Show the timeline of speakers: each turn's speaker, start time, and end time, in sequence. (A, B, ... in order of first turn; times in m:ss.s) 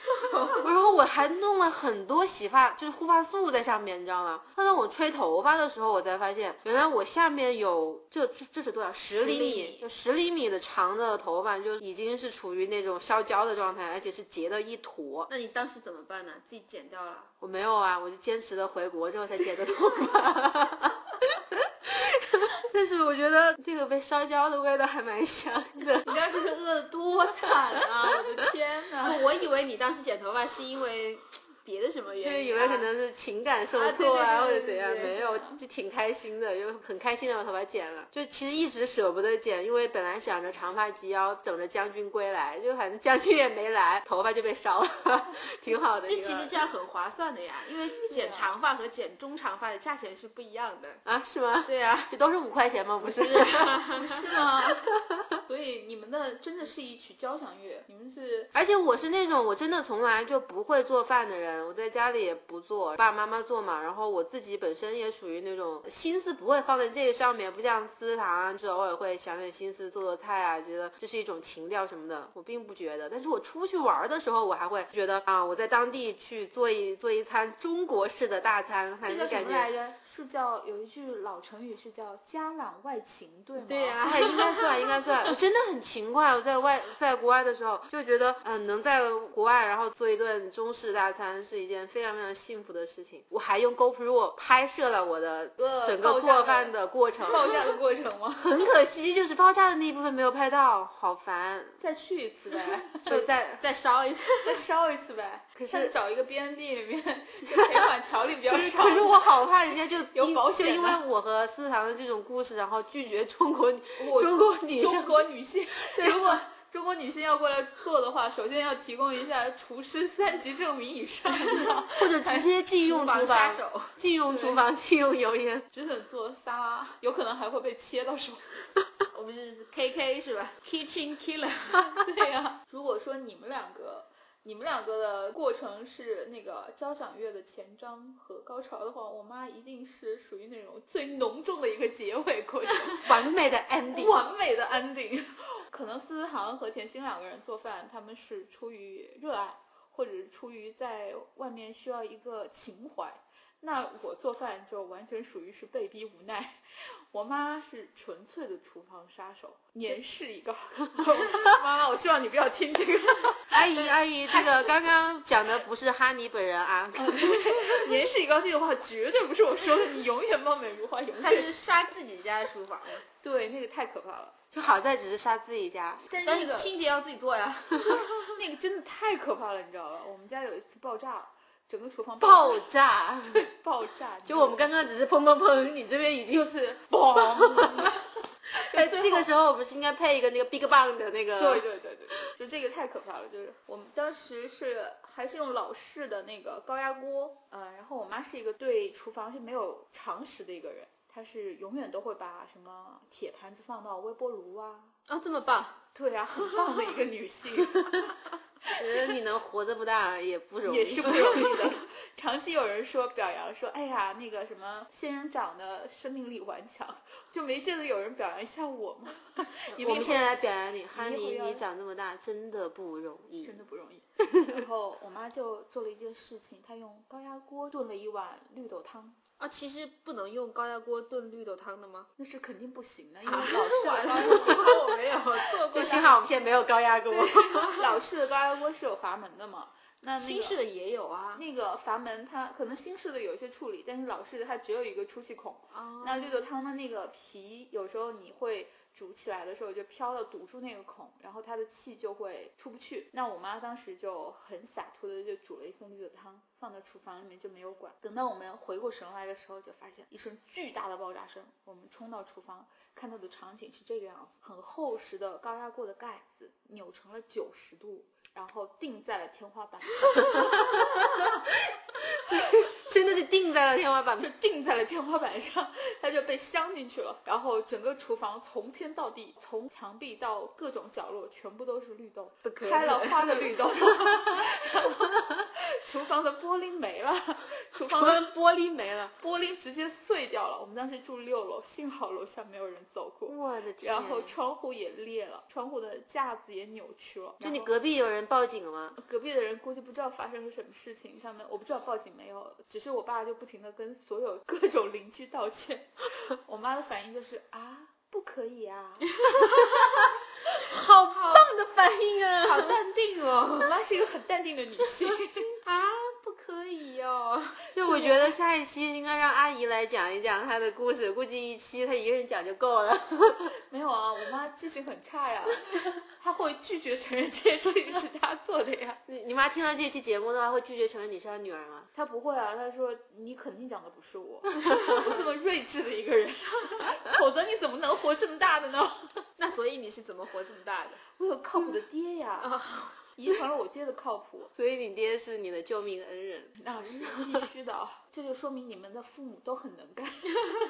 0:00.3-0:00.7 A
0:00.6-0:15.3 B
0:09.1-0:09.8 A
0:15.3-0:17.3 A
0:17.4-0:26.1 B
0:26.0-0:29.2 C
0:29.0-0:32.8 A
0:32.2-0:46.6 B
0:33.7-0:35.1 A
0:34.3-0:35.6 C
0:46.0-0:51.0 A
0:48.1-0:48.5 C
0:51.0-0:53.8 B
0:53.0-0:54.2 A
0:53.9-0:54.9 C
0:55.4-0:58.5 C
0:58.5-1:19.7 B
1:19.0-1:24.0 C
1:23.6-1:37.4 B
1:24.0-1:25.3 A
1:35.6-1:38.6 C
1:38.4-1:41.8 B
1:41.8-1:43.1 C
1:43.0-1:43.6 B
1:43.1-1:44.6 A
1:44.4-1:49.5 C
1:45.6-1:45.9 B
1:48.5-1:55.2 B
1:50.1-1:51.0 C
1:54.0-2:02.5 C
1:55.8-1:56.4 B
2:02.0-2:05.6 B
2:02.8-2:03.9 A
2:04.2-2:04.6 C
2:05.7-2:08.5 C
2:09.1-2:12.0 A
2:12.0-2:23.2 C
2:23.0-2:24.2 B
2:23.9-2:43.6 C
2:43.5-2:47.7 B
2:44.3-2:44.7 C
2:47.0-2:51.5 C
2:51.2-2:53.0 A
2:53.2-2:54.4 C
2:54.5-2:56.0 B
2:56.1-2:56.7 C
2:56.2-2:58.2 A
2:58.2-3:02.6 C
3:02.2-3:03.4 B
3:03.2-3:04.9 C
3:04.2-3:06.5 B
3:06.3-3:09.3 C
3:07.1-3:07.8 B
3:08.7-3:11.6 B
3:11.4-3:24.9 C
3:25.1-3:25.8 A
3:25.9-3:28.1 C
3:26.5-3:26.8 A
3:28.8-3:31.8 B
3:30.6-3:41.6 C
3:39.8-3:43.6 B
3:43.4-3:49.2 C
3:49.4-3:52.1 A
3:52.2-3:56.2 C
3:53.2-3:56.2 A
3:54.2-3:54.8 B
3:55.7-3:57.9 B
3:57.3-3:57.9 A
3:57.7-4:00.6 C
4:00.2-4:01.4 A
4:01.3-4:31.3 C
4:05.7-4:06.4 A
4:30.4-4:31.0 B
4:32.2-4:34.3 B
4:34.2-4:48.2 C
4:42.4-4:43.5 A
4:47.8-4:49.1 B
4:49.2-4:57.7 C
4:53.3-4:54.4 B
4:57.4-4:59.0 B
4:59.0-5:09.1 C
5:10.7-5:12.8 B
5:10.9-5:11.5 A
5:12.4-5:13.7 A
5:13.6-5:15.5 C
5:15.6-5:17.6 A
5:17.7-5:23.5 B
5:17.8-5:18.3 C
5:23.7-5:29.0 C
5:29.1-5:31.9 B
5:31.9-5:39.2 C
5:39.4-5:41.0 A
5:41.1-5:42.5 C
5:42.4-5:43.0 A
5:43.1-5:44.5 C
5:44.6-5:47.4 B
5:46.6-5:50.4 C